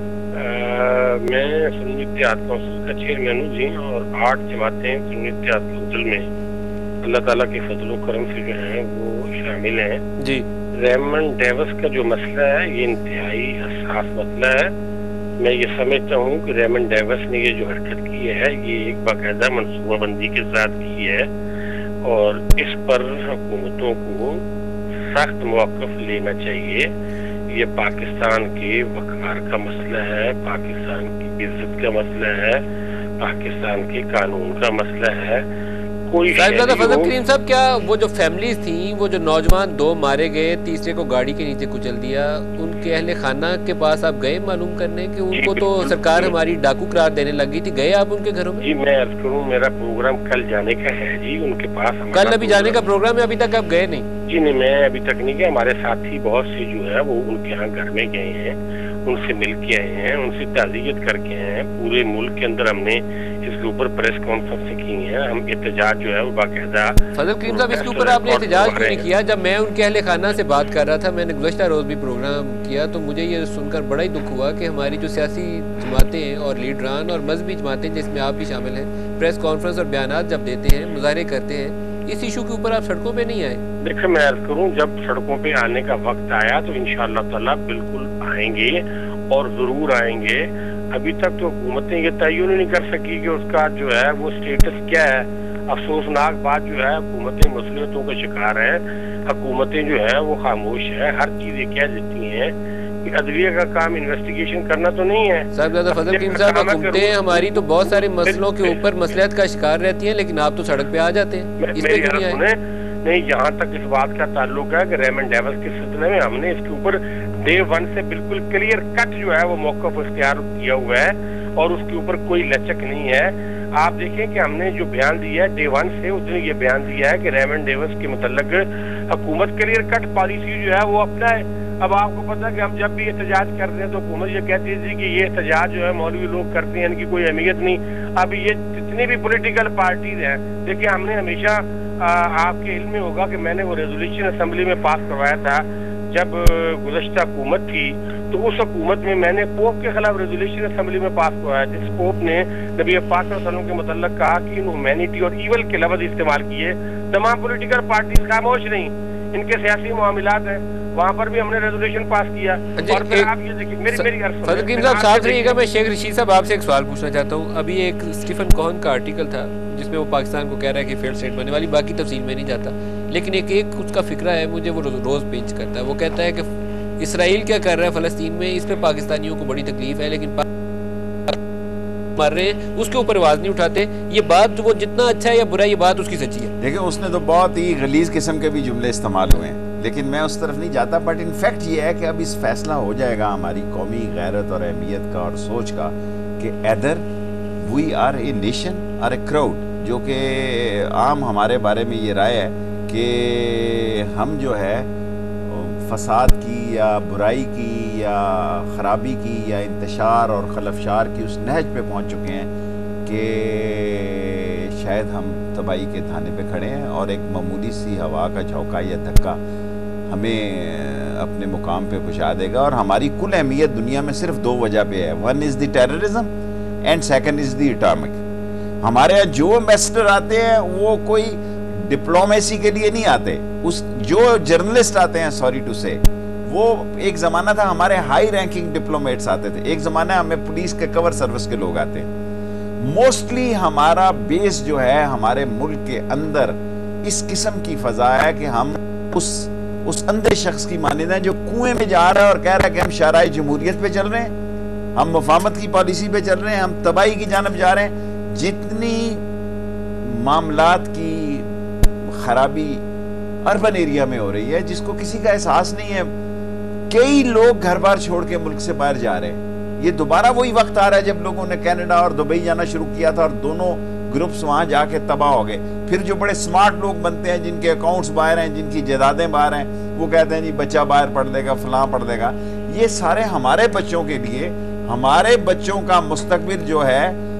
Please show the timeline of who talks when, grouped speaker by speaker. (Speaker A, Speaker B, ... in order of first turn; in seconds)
Speaker A: 0.3-6.3, 7.0-10.0, 10.8-14.7, 15.4-21.3, 22.0-24.4, 25.0-26.9, 27.5-32.6, 33.2-35.5, 36.1-37.1, 45.3-46.3, 48.6-52.9, 54.3-69.1, 83.8-108.8, 111.6-165.6
Speaker B: 10.2-10.4, 36.3-48.6, 52.1-54.0, 67.1-83.6, 105.5-112.4, 162.8-163.3, 163.9-180.5, 182.1-186.5
Speaker C: 186.6-197.0, 197.6-204.9, 205.4-212.5, 213.0-219.4, 220.1-226.3, 226.8-228.2, 228.8-242.1, 242.8-254.3, 254.9-259.2, 260.0-261.5, 262.0-262.8, 263.4-266.1, 266.9-287.2